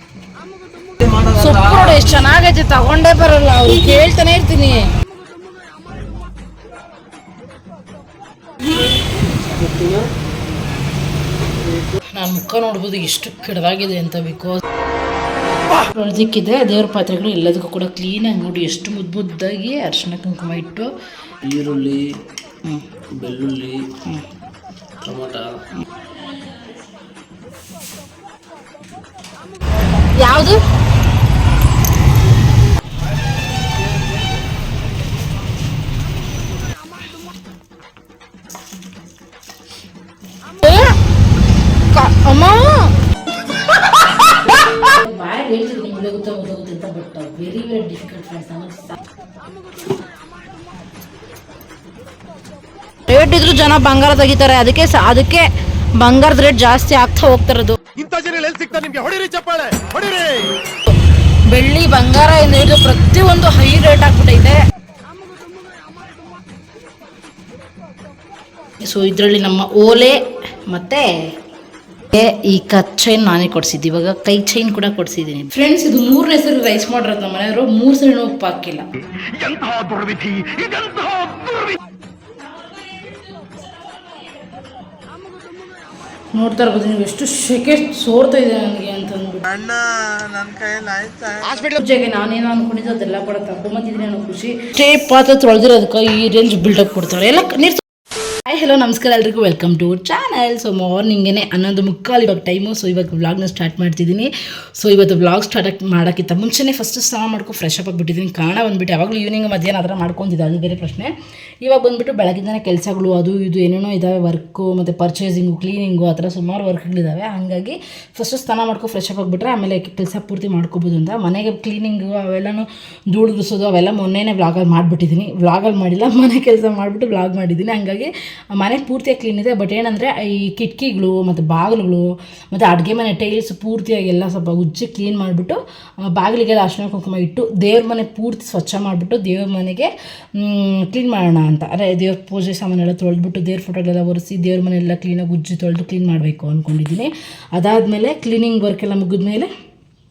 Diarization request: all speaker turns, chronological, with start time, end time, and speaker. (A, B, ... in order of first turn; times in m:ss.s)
0:01.0-0:02.2 A
0:01.3-0:04.9 B
0:09.6-0:10.1 A
0:12.1-0:14.6 B
0:15.8-0:20.9 B
0:21.4-0:22.1 A
0:23.1-0:23.9 A
0:25.0-0:25.6 A
0:30.2-0:30.6 B
0:40.6-0:41.0 B
0:41.9-0:42.9 B
0:43.9-0:49.0 B
0:53.1-0:57.8 B
0:57.9-1:00.5 C
1:01.5-1:04.6 B
1:08.8-1:11.2 B
1:12.1-1:18.8 B
1:19.1-1:21.7 C
1:26.3-1:29.5 B
1:29.5-1:31.7 C
1:31.6-1:37.8 B
1:38.4-1:51.1 B
1:51.6-2:29.5 B